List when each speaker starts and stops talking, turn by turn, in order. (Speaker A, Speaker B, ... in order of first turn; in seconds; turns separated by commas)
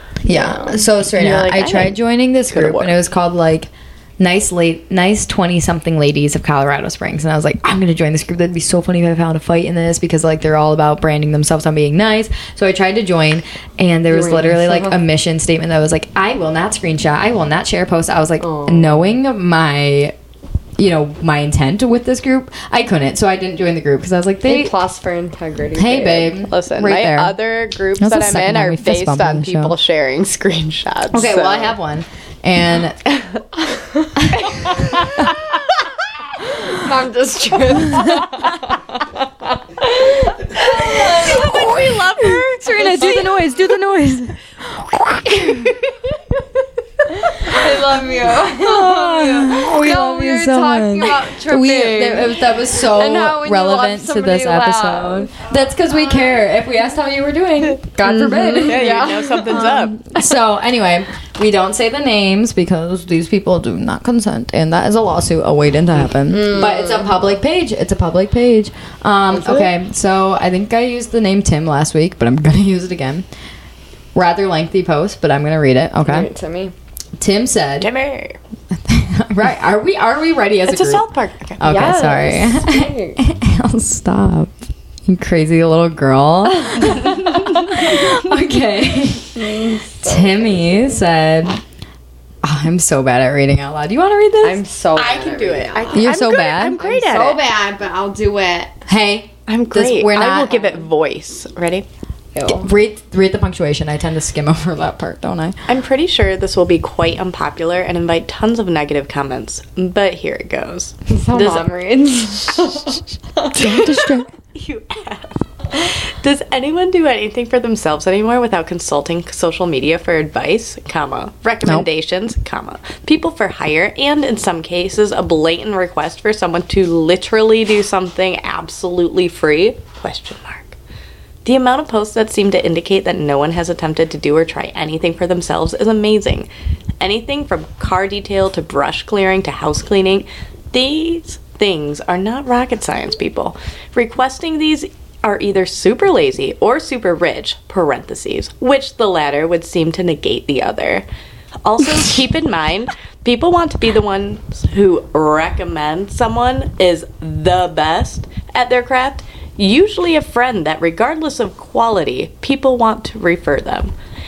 Speaker A: 0.2-20.1, Speaker B: 0.2-0.8, Speaker C: 1.1-2.0, Speaker C: 2.5-3.0, Speaker B: 14.1-15.0, Speaker B: 18.4-19.1, Speaker A: 20.8-24.7, Speaker B: 24.4-26.4, Speaker A: 25.7-27.4, Speaker C: 26.5-31.7, Speaker A: 28.0-29.7, Speaker A: 31.1-33.0, Speaker C: 34.5-35.3, Speaker B: 36.4-39.2, Speaker B: 39.8-43.2, Speaker A: 40.6-45.7, Speaker C: 41.2-43.4, Speaker A: 47.2-73.2, Speaker B: 47.4-55.3, Speaker B: 58.0-59.7, Speaker C: 58.6-60.2, Speaker B: 66.3-67.1, Speaker B: 69.4-69.7, Speaker A: 74.1-76.3, Speaker B: 76.0-76.7, Speaker A: 77.2-77.9, Speaker C: 77.8-78.4, Speaker A: 78.8-81.0, Speaker C: 80.7-81.9, Speaker A: 81.6-84.5, Speaker B: 81.6-83.2, Speaker A: 85.0-89.5, Speaker C: 86.8-88.1, Speaker B: 89.3-91.0, Speaker A: 90.0-91.6, Speaker A: 92.4-94.6, Speaker B: 94.4-96.1, Speaker C: 95.0-97.4, Speaker A: 95.9-96.8, Speaker B: 96.8-98.7, Speaker A: 98.9-100.6, Speaker C: 99.5-101.8, Speaker B: 102.3-102.7, Speaker A: 102.6-105.6, Speaker C: 105.7-111.7, Speaker B: 111.1-114.0, Speaker A: 113.5-114.2, Speaker C: 114.5-130.8, Speaker C: 131.4-136.5, Speaker C: 137.0-151.0, Speaker C: 151.6-163.9